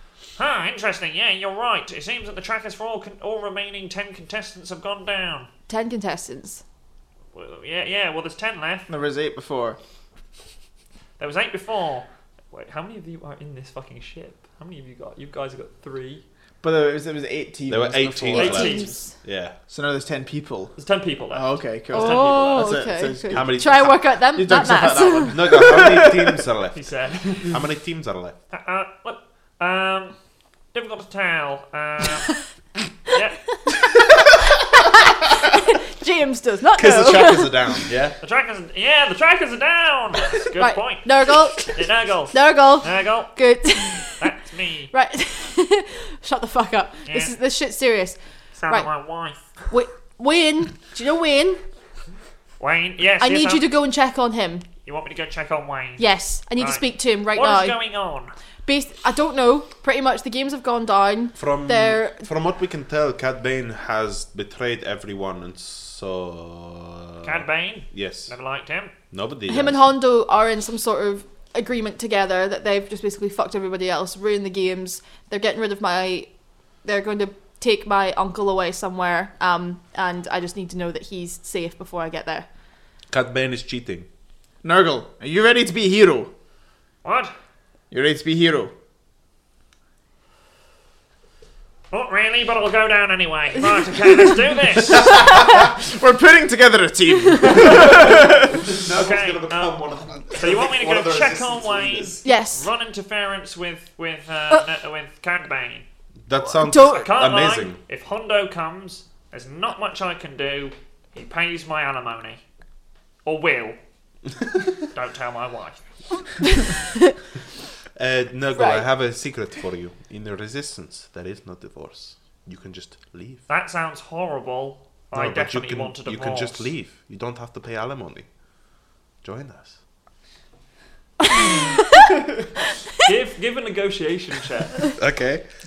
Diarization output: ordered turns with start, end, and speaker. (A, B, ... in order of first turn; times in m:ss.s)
0:00.4-0:05.5 A
0:05.7-0:06.6 B
0:07.3-0:08.9 A
0:08.9-0:09.8 C
0:11.2-0:16.2 A
0:16.6-0:18.8 C
0:17.7-0:19.6 D
0:18.4-0:19.0 A
0:18.4-0:19.1 B
0:19.7-0:20.7 C
0:20.8-0:22.8 A
0:21.3-0:23.6 C
0:21.9-0:25.6 B
0:23.2-0:24.2 D
0:24.3-0:26.4 C
0:25.3-0:28.4 D
0:26.7-0:27.6 A
0:28.5-0:30.1 A
0:30.7-0:32.3 A
0:33.1-0:33.4 A
0:35.1-0:37.8 B
0:36.7-0:38.2 D
0:38.2-0:43.4 A
0:40.6-0:41.8 B
0:42.3-0:44.3 B
0:44.2-0:44.9 A
0:44.9-0:48.9 B
0:47.0-0:47.3 A
0:48.6-0:49.7 A
0:49.7-0:51.6 B
0:52.6-0:53.7 A
0:53.2-0:54.7 B
0:54.8-0:58.3 A
0:56.0-0:57.8 B
0:58.6-1:02.3 B
1:01.4-1:08.3 D
1:07.2-1:08.9 A
1:09.1-1:09.8 D
1:09.5-1:16.3 B
1:16.8-1:22.5 B
1:23.1-1:24.0 D
1:24.6-1:26.3 C
1:27.0-1:27.3 A
1:27.9-1:28.7 C
1:31.9-1:35.0 A
1:35.0-1:35.3 D
1:35.4-1:38.6 C
1:37.3-1:37.6 B
1:37.6-1:42.2 D
1:37.6-1:38.0 A
1:38.9-1:45.8 A
1:42.2-1:42.7 B
1:46.3-1:47.8 D
1:46.6-1:47.1 B
1:46.8-1:52.4 A
1:53.2-1:53.8 A
1:54.9-1:55.8 A
1:56.4-1:56.8 B
1:58.0-2:03.4 D
1:58.6-1:58.8 B
2:03.5-2:06.7 A
2:05.1-2:08.3 D
2:09.2-2:09.8 D
2:11.3-2:12.2 B
2:13.0-2:14.8 A
2:14.9-2:15.4 D